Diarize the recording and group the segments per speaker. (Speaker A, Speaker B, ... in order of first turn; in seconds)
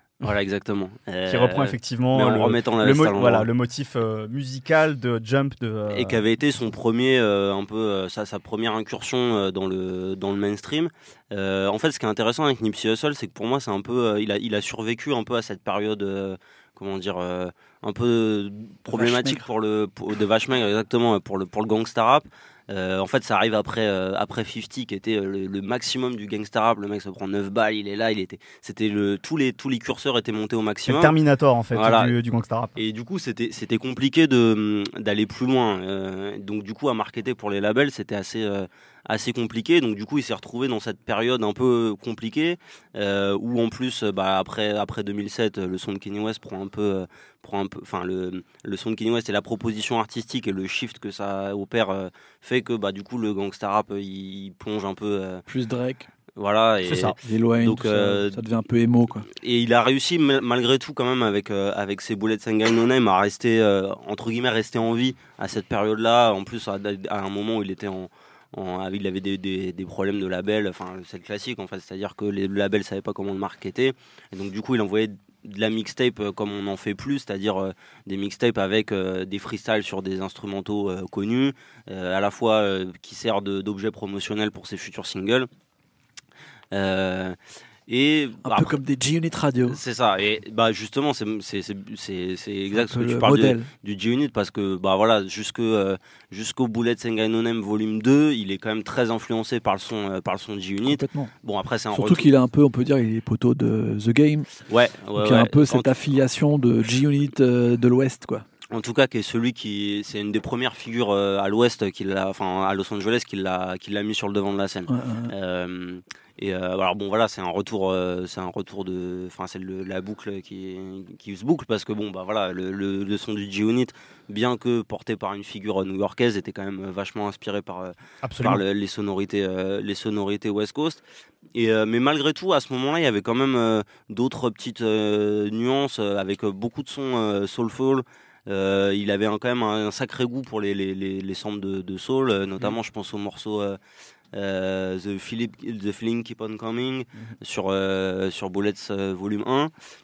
Speaker A: 0.2-3.5, 5.9-31.1, 31.7-32.1, 32.8-55.4, 56.4-58.4, 59.3-85.5, 86.7-87.4, 87.9-88.7, 89.7-102.3, 104.7-106.0, 108.7-131.0, 131.5-143.8, 144.3-149.7
Speaker B: 1.3-6.2, 30.9-32.7, 56.8-57.2, 128.2-128.6
Speaker C: 18.9-19.4, 55.5-56.1, 57.2-59.3, 88.4-89.8, 92.7-93.7, 100.8-101.3, 101.9-104.5, 105.1-108.4, 114.9-115.3